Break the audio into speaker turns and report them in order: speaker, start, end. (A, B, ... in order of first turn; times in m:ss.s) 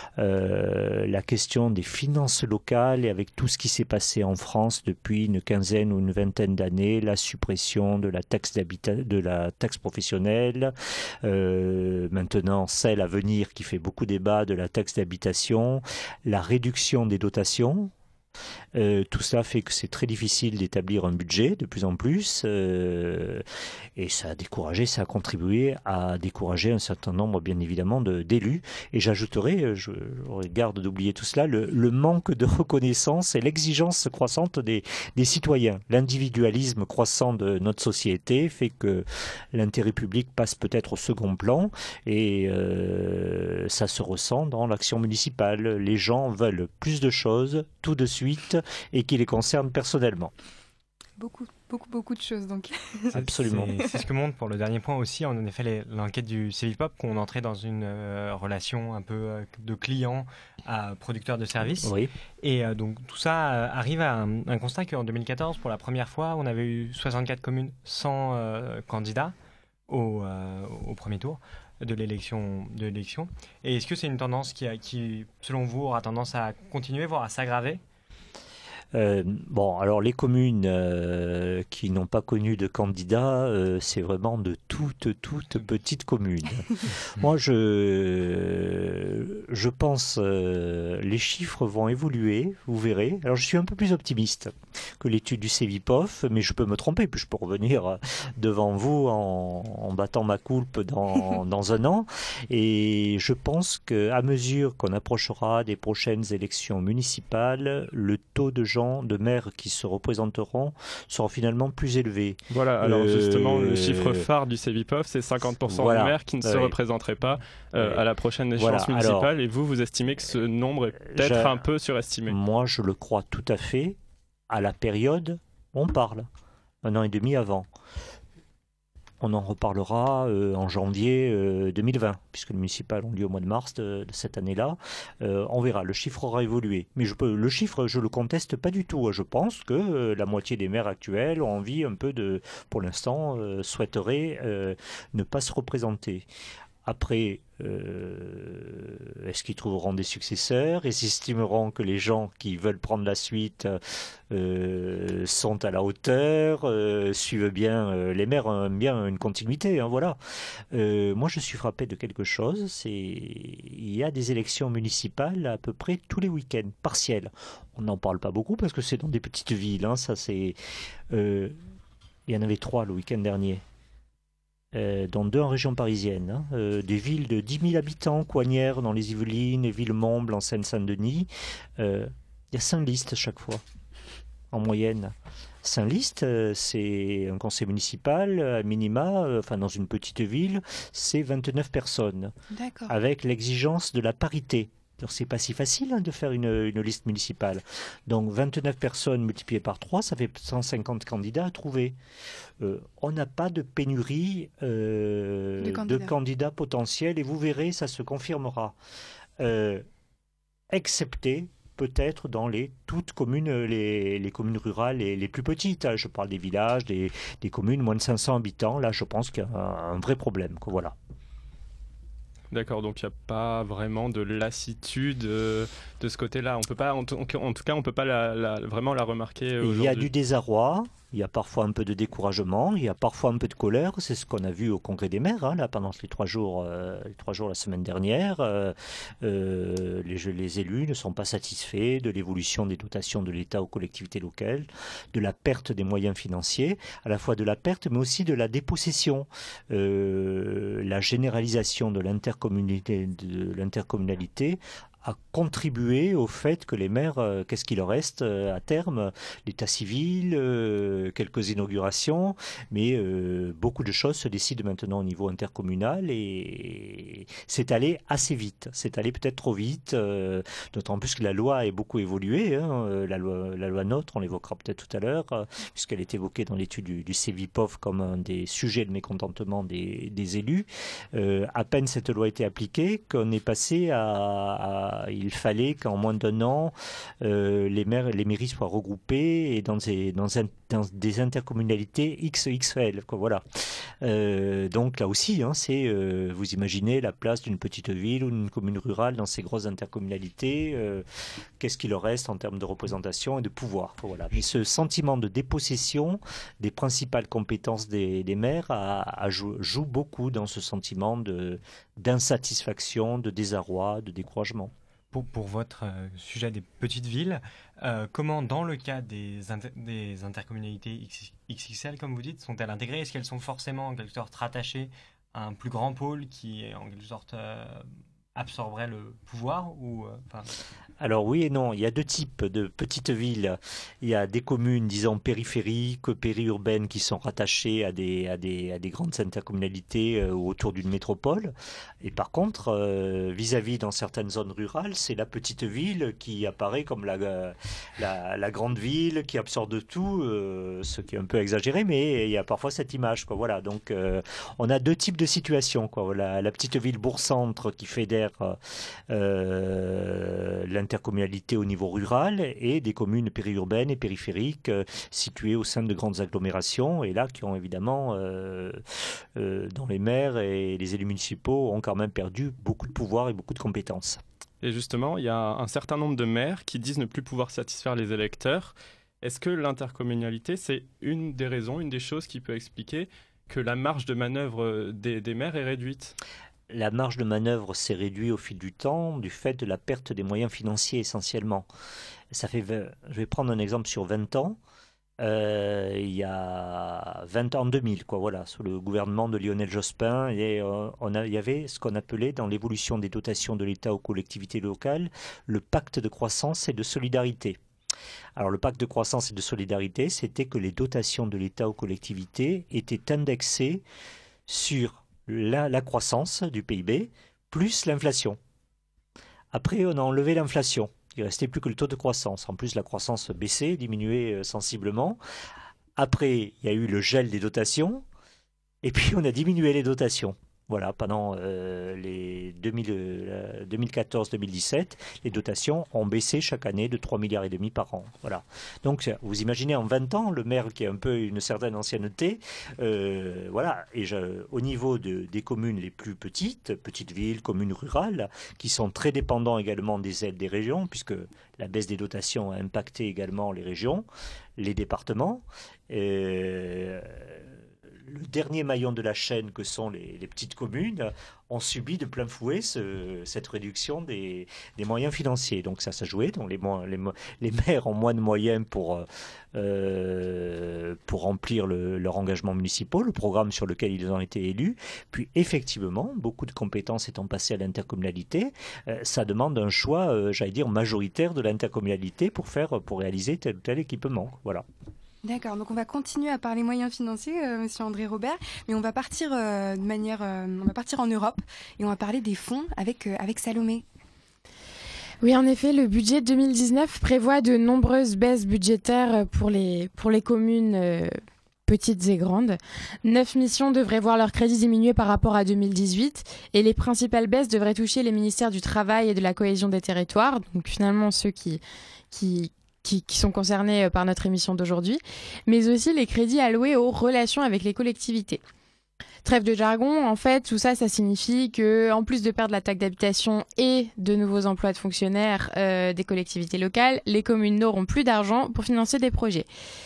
0:00.2-0:17.9 A
0:18.8-0:23.4 A
0:24.0-0:50.3 A
0:51.2-0:53.1 B
0:53.1-1:09.3 C
0:53.1-0:53.7 A
1:01.8-1:02.1 A
1:09.9-1:17.8 C
1:18.9-1:54.3 A
1:52.5-2:02.4 D
1:55.7-1:56.8 A
1:57.8-1:58.0 A
1:58.6-1:59.3 A
2:01.1-2:01.6 A
2:02.3-2:04.0 A
2:04.5-2:06.3 A
2:06.8-2:07.7 A
2:09.2-2:26.3 A
2:26.8-2:33.8 A
2:34.3-2:40.2 A
2:40.7-2:50.6 A
2:51.1-2:51.6 A
2:52.3-2:53.6 A
2:54.7-3:03.6 A
3:04.5-3:12.3 A
3:12.5-3:12.9 B
3:12.9-3:22.0 A
3:22.6-3:28.8 A
3:25.6-3:26.1 B
3:29.4-3:29.8 A
3:30.7-3:41.0 A
3:42.5-3:50.1 D
3:49.6-4:53.4 A
4:54.0-5:01.0 A
5:01.6-5:14.7 A
5:15.1-5:30.5 C
5:31.0-5:58.6 A
5:59.1-6:08.8 A
6:09.4-6:14.2 A
6:14.6-6:26.2 D
6:26.7-6:31.7 A
6:32.3-6:34.6 A
6:35.2-6:47.6 A
6:48.4-6:53.8 A
6:54.5-6:58.4 A
6:59.5-7:05.2 A
7:06.0-7:08.0 A
7:08.8-7:34.1 A
7:34.6-8:04.6 A
8:05.2-8:13.8 B
8:15.2-8:38.4 E
8:39.2-8:49.5 E